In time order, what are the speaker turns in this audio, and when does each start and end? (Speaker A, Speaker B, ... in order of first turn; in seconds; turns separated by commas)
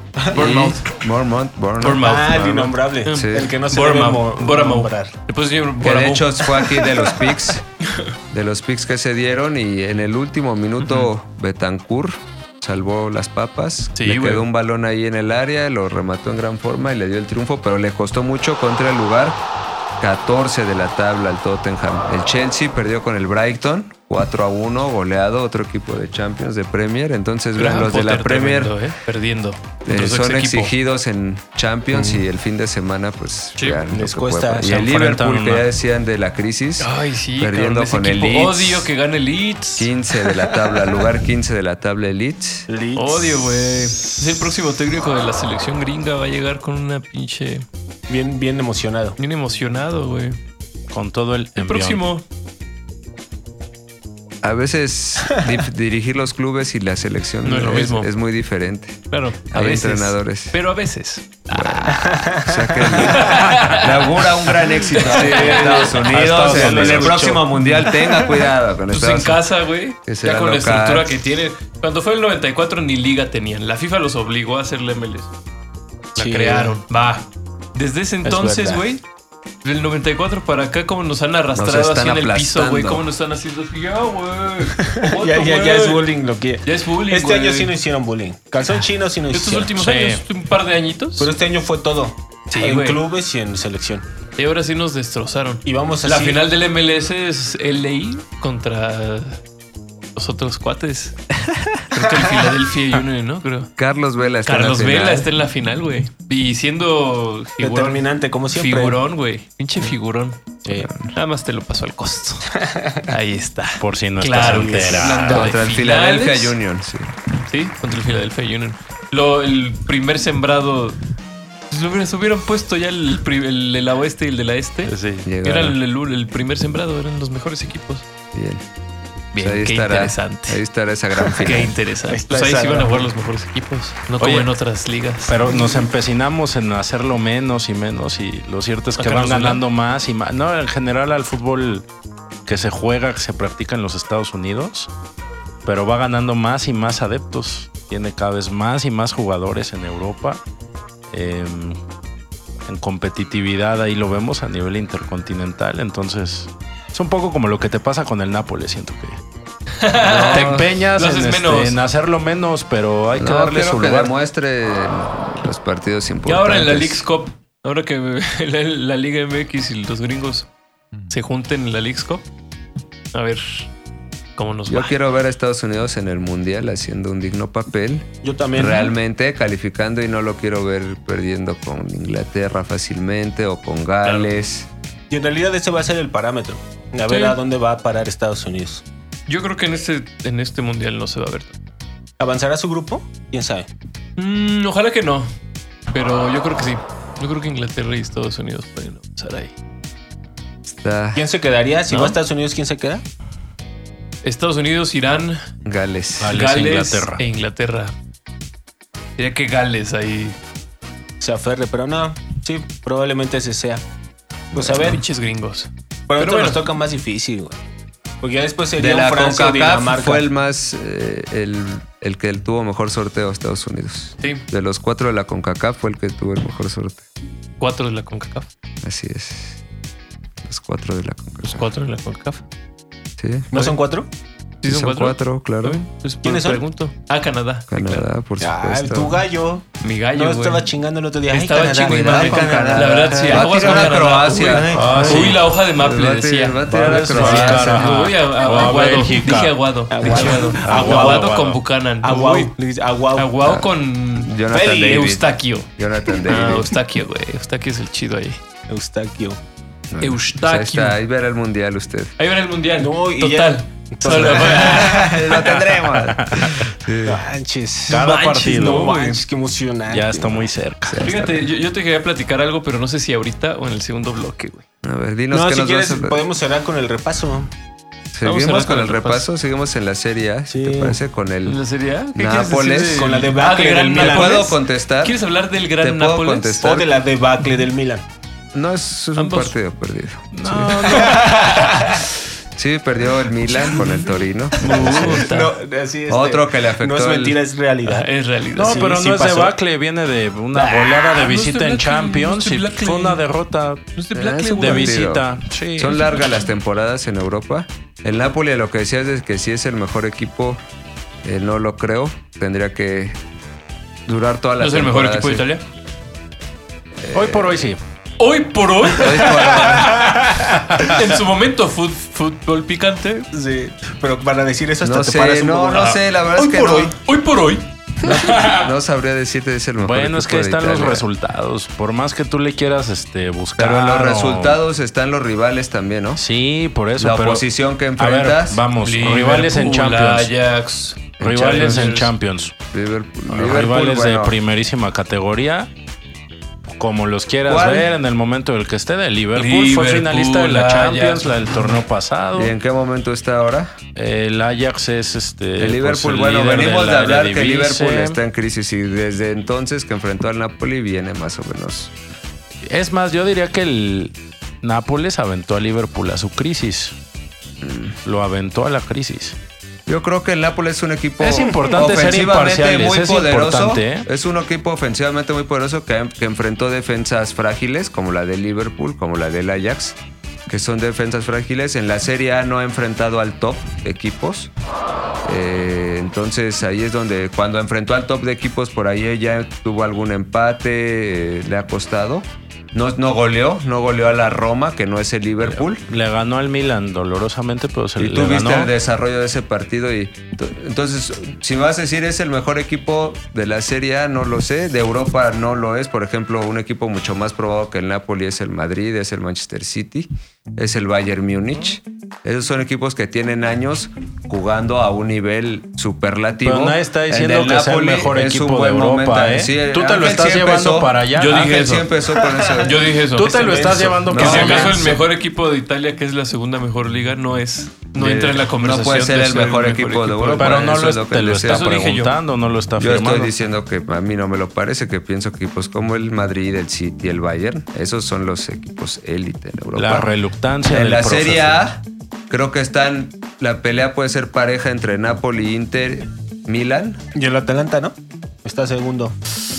Speaker A: 0.2-0.6, Speaker B: 0.3-0.8, Speaker C: 0.3-2.1, Speaker B: 1.8-7.2, Speaker A: 1.9-5.1, Speaker C: 3.1-3.5, Speaker C: 5.8-7.7, Speaker C: 8.3-19.4, Speaker B: 10.8-11.1, Speaker B: 13.9-14.4, Speaker C: 20.0-28.7, Speaker B: 27.6-30.7, Speaker C: 29.8-38.9, Speaker A: 31.9-32.2, Speaker B: 33.6-33.8, Speaker A: 33.9-34.7, Speaker D: 34.6-35.7, Speaker B: 36.8-40.7, Speaker C: 39.8-42.7, Speaker A: 42.7-43.6, Speaker B: 43.0-47.6, Speaker A: 48.1-49.2, Speaker B: 49.2-50.4, Speaker D: 50.9-52.0, Speaker B: 51.6-52.2, Speaker C: 54.4-60.6, Speaker B: 57.4-58.1, Speaker B: 59.1-62.2, Speaker C: 61.5-69.4, Speaker A: 61.9-63.4, Speaker B: 62.9-66.0, Speaker A: 65.0-67.4, Speaker D: 65.9-67.3, Speaker B: 68.9-75.3, Speaker C: 70.0-71.2, Speaker B: 76.1-79.0, Speaker A: 76.2-76.8, Speaker A: 78.2-78.8, Speaker B: 79.6-86.1, Speaker C: 81.5-83.0, Speaker A: 84.8-89.7, Speaker B: 86.6-87.7, Speaker B: 89.3-91.3, Speaker D: 89.8-90.2, Speaker A: 91.2-94.0, Speaker B: 92.5-93.0, Speaker B: 94.4-99.4, Speaker A: 95.7-96.4, Speaker B: 100.1-101.2, Speaker B: 101.9-103.7, Speaker C: 103.8-105.3, Speaker B: 104.5-112.5, Speaker A: 107.6-109.0, Speaker C: 110.7-111.1, Speaker A: 112.5-113.0, Speaker B: 113.1-116.5, Speaker D: 113.8-115.5, Speaker A: 114.3-115.2, Speaker C: 114.9-117.1, Speaker B: 117.5-121.0, Speaker B: 121.7-128.1, Speaker D: 124.8-125.3, Speaker C: 125.2-125.8, Speaker C: 128.3-128.6, Speaker B: 129.3-130.6, Speaker C: 129.4-131.7, Speaker B: 131.4-135.4, Speaker A: 132.1-133.1, Speaker D: 134.2-134.5, Speaker D: 135.3-141.8, Speaker B: 139.0-139.6, Speaker D: 142.5-144.9, Speaker D: 145.7-150.4, Speaker D: 151.1-151.8, Speaker D: 152.7-159.2, Speaker B: 159.7-161.8, Speaker C: 160.0-160.7, Speaker D: 160.2-164.1, Speaker C: 163.2-167.0, Speaker B: 166.2-170.5, Speaker B: 171.1-172.2, Speaker B: 173.1-173.7, Speaker B: 174.3-175.0, Speaker C: 174.7-184.7, Speaker A: 178.2-178.9, Speaker B: 184.0-184.3, Speaker A: 185.1-188.8, Speaker B: 187.1-187.4, Speaker B: 189.3-191.6, Speaker A: 192.2-193.7, Speaker B: 194.2-195.3, Speaker B: 195.9-199.5, Speaker C: 200.7-201.2, Speaker A: 201.1-203.0, Speaker B: 201.9-202.2, Speaker B: 204.2-205.4, Speaker C: 205.6-206.6, Speaker D: 206.2-207.2, Speaker B: 206.2-207.9, Speaker B: 209.2-210.4, Speaker A: 211.2-213.8, Speaker A: 214.5-215.0, Speaker B: 214.7-216.6, Speaker A: 216.1-217.6, Speaker A: 218.2-220.2, Speaker C: 218.8-227.0, Speaker B: 224.2-224.4, Speaker B: 227.6-228.5, Speaker C: 228.8-229.6, Speaker C: 230.4-231.7, Speaker B: 231.4-232.4, Speaker C: 233.2-233.5, Speaker A: 233.5-234.1, Speaker B: 234.6-238.1, Speaker C: 234.7-235.8, Speaker A: 236.2-236.6, Speaker C: 237.7-239.2, Speaker A: 238.4-243.9, Speaker B: 239.8-240.7, Speaker B: 241.3-252.5, Speaker C: 241.8-247.9, Speaker A: 244.4-245.3, Speaker D: 244.7-245.4, Speaker D: 246.7-251.6, Speaker A: 249.9-251.3, Speaker A: 252.0-253.3, Speaker B: 253.2-255.7, Speaker C: 253.4-256.7, Speaker A: 254.5-255.1, Speaker B: 256.2-258.4, Speaker A: 258.7-259.4, Speaker C: 259.9-262.1, Speaker B: 260.0-261.0, Speaker B: 262.2-265.1, Speaker A: 262.8-265.3, Speaker C: 264.1-267.2, Speaker D: 265.4-266.6, Speaker A: 267.0-270.4, Speaker D: 267.9-268.9, Speaker B: 267.9-269.2, Speaker D: 269.9-271.1, Speaker C: 270.9-271.5, Speaker B: 271.0-274.6, Speaker C: 274.8-276.2, Speaker A: 275.3-277.5, Speaker C: 278.1-281.6, Speaker B: 278.2-279.3, Speaker A: 280.5-281.0, Speaker B: 281.4-286.6, Speaker C: 282.1-283.2, Speaker A: 282.9-284.5, Speaker C: 283.9-285.2, Speaker C: 285.8-286.9, Speaker A: 286.6-288.0, Speaker C: 288.5-290.7, Speaker B: 289.1-289.6, Speaker D: 290.3-291.3, Speaker B: 290.5-291.9, Speaker A: 290.9-292.1, Speaker C: 292.6-295.3, Speaker B: 294.6-295.5, Speaker A: 294.6-299.5, Speaker C: 296.1-297.4, Speaker B: 297.9-298.9, Speaker D: 298.6-303.9, Speaker B: 300.5-303.2, Speaker B: 303.9-305.0, Speaker C: 304.1-310.6, Speaker D: 304.6-306.0, Speaker B: 305.6-306.1, Speaker C: 311.2-313.2, Speaker C: 314.1-315.5, Speaker B: 314.6-315.6, Speaker C: 317.0-317.6, Speaker D: 317.1-317.8, Speaker B: 318.2-323.3, Speaker C: 318.9-320.1, Speaker A: 323.3-326.9, Speaker C: 324.8-326.9, Speaker B: 326.4-328.7, Speaker C: 328.0-331.0, Speaker D: 329.8-334.6, Speaker C: 333.6-336.2, Speaker D: 336.2-337.4, Speaker C: 337.0-338.6, Speaker D: 338.0-340.3, Speaker B: 338.8-342.1, Speaker D: 341.2-342.6, Speaker C: 342.7-344.4, Speaker D: 343.3-345.7, Speaker D: 346.7-352.5, Speaker C: 347.4-347.9, Speaker B: 349.3-351.7, Speaker C: 352.4-353.7, Speaker D: 353.9-358.2, Speaker C: 355.6-361.9, Speaker D: 362.6-366.9, Speaker C: 367.6-367.9, Speaker D: 368.0-369.4, Speaker C: 369.9-384.5, Speaker D: 371.2-374.1, Speaker C: 385.2-395.8, Speaker D: 395.9-398.7, Speaker C: 398.0-422.9, Speaker D: 416.4-421.5, Speaker B: 421.1-421.9, Speaker A: 422.2-422.7, Speaker B: 422.6-430.8, Speaker D: 423.1-425.0, Speaker A: 423.4-423.9, Speaker C: 424.0-424.8, Speaker C: 427.9-431.7, Speaker D: 430.4-433.3, Speaker B: 431.4-432.2, Speaker C: 432.8-440.1, Speaker D: 439.8-441.6, Speaker C: 440.7-447.0, Speaker A: 447.1-449.1